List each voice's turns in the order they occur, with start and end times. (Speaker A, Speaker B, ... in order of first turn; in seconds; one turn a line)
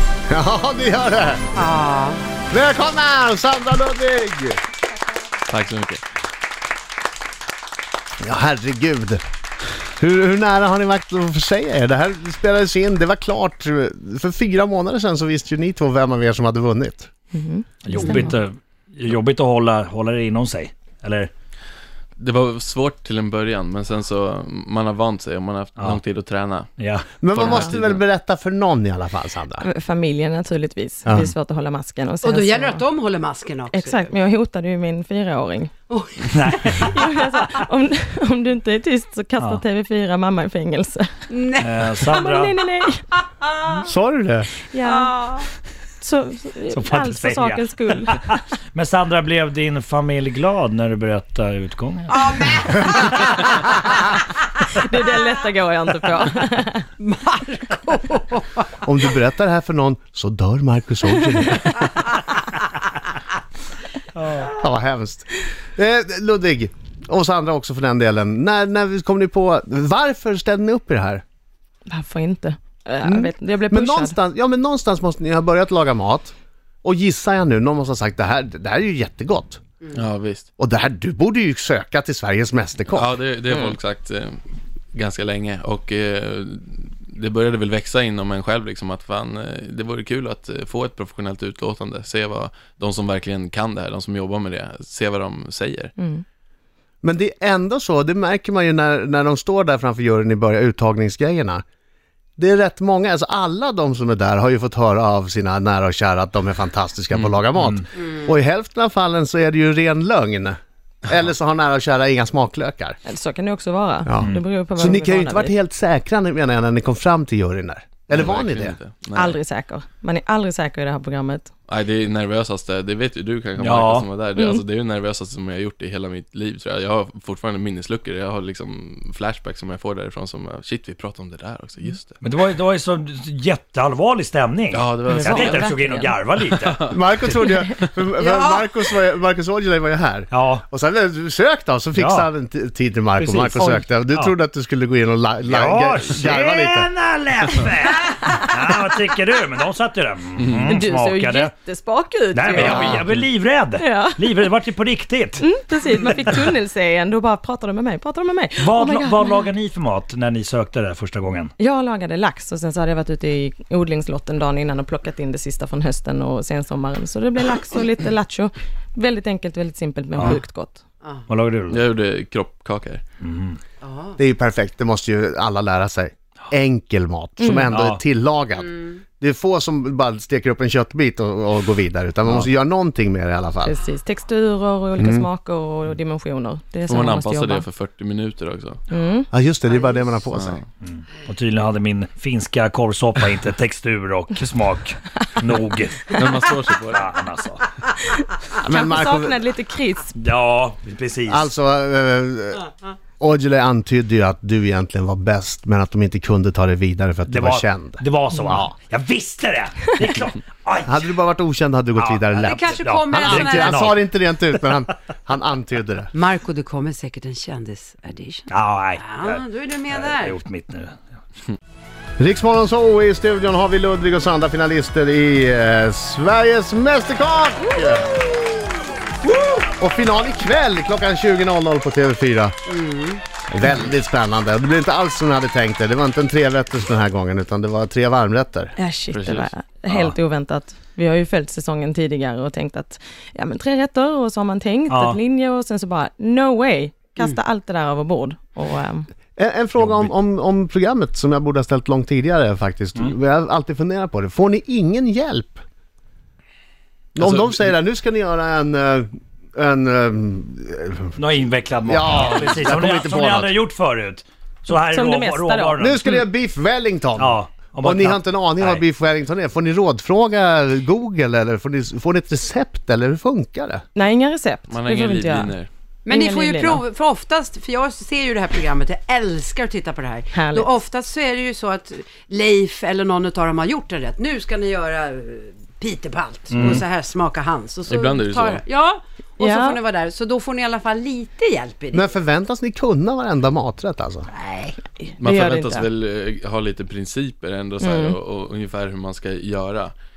Speaker A: 0.3-1.5
Speaker B: 1.6-2.2
Speaker A: 2.5-4.6
Speaker C: 5.5-6.0
Speaker A: 8.2-9.2
Speaker A: 10.0-17.1
Speaker D: 17.3-18.4
Speaker E: 17.8-21.3
Speaker C: 22.2-26.7
Speaker E: 26.8-27.7
Speaker A: 27.2-29.7
Speaker C: 27.3-28.0
Speaker D: 29.6-32.8
Speaker A: 31.1-31.3
Speaker B: 32.2-34.1
Speaker D: 33.7-35.7
Speaker B: 35.9-37.5
Speaker E: 36.3-36.7
Speaker D: 36.7-41.2
Speaker B: 41.3-42.2
Speaker E: 41.6-42.6
Speaker D: 42.1-43.0
Speaker B: 43.2-43.9
Speaker A: 43.8-44.5
Speaker D: 44.7-45.5
Speaker D: 46.0-48.2
Speaker E: 46.7-52.7
Speaker B: 52.1-53.8
Speaker D: 54.7-56.9
Speaker B: 57.0-58.7
Speaker A: 58.8-61.8
Speaker E: 64.2-64.5
Speaker A: 64.4-71.2
Speaker D: 71.9-74.2
Speaker A: 73.0-76.3
Speaker A: 76.8-79.6
Speaker C: 79.9-80.5
Speaker A: 80.6-83.2
Speaker C: 82.9-84.4
Speaker C: 84.9-95.9
Speaker D: 96.0-96.2
Speaker A: 97.0-101.6
Speaker A: 102.4-113.0
Speaker D: 113.0-115.5
Speaker A: 114.0-118.8
Speaker C: 118.1-119.4
Speaker D: 119.1-121.5
Speaker C: 121.7-132.2
Speaker E: 123.6-124.1
Speaker D: 124.4-124.6
Speaker E: 132.2-136.9
Speaker C: 134.7-135.7
Speaker D: 135.1-136.2
Speaker C: 136.4-137.6
Speaker A: 136.9-146.9
Speaker B: 138.2-138.7
Speaker E: 140.3-140.6
Speaker E: 142.0-142.3
Speaker E: 143.2-144.3
Speaker E: 145.5-151.5
Speaker D: 150.6-153.2
Speaker E: 152.3-155.5
Speaker A: 152.5-153.0
Speaker D: 153.8-154.5
Speaker D: 155.4-159.5
Speaker E: 158.6-161.5
Speaker D: 161.6-170.8
Speaker E: 170.2-170.4
Speaker E: 171.3-171.8
Speaker C: 171.7-173.0
Speaker E: 173.2-173.6
Speaker B: 173.8-174.2
Speaker A: 174.2-183.7
Speaker D: 177.4-177.7
Speaker E: 177.7-178.0
Speaker D: 183.6-187.7
Speaker A: 185.0-185.3
Speaker C: 186.9-188.8
Speaker D: 188.9-189.3
Speaker A: 189.3-190.6
Speaker C: 190.3-190.7
Speaker E: 190.8-196.2
Speaker C: 196.1-197.2
Speaker E: 196.9-197.6
Speaker D: 198.6-200.2
Speaker A: 198.6-199.4
Speaker E: 200.2-201.5
Speaker A: 201.3-202.7
Speaker A: 203.2-208.7
Speaker E: 207.3-211.0
Speaker A: 210.8-216.1
Speaker E: 212.0-214.0
Speaker B: 212.4-213.9
Speaker B: 216.1-220.4
Speaker E: 218.5-221.1
Speaker A: 222.2-228.2
Speaker A: 229.8-232.6
Speaker B: 232.7-233.2
Speaker A: 233.5-238.7
Speaker D: 238.8-249.1
Speaker C: 239.1-239.5
Speaker E: 244.9-245.2
Speaker A: 249.4-255.6
Speaker E: 249.8-250.1
Speaker A: 257.1-261.2
Speaker C: 257.2-257.6
Speaker E: 261.2-266.0
Speaker A: 261.9-263.5
Speaker D: 264.9-265.8
Speaker A: 265.8-273.8
Speaker E: 267.2-268.8
Speaker D: 273.9-275.5
Speaker C: 274.7-275.7
Speaker B: 276.1-292.1
Speaker D: 276.1-276.8
Speaker D: 280.3-280.7
Speaker E: 286.5-286.8
Speaker C: 287.9-288.6
Speaker D: 289.4-289.8
Speaker A: 291.9-294.3
Speaker B: 294.4-294.8
Speaker D: 295.0-295.9
Speaker C: 295.2-299.9
Speaker D: 297.8-298.2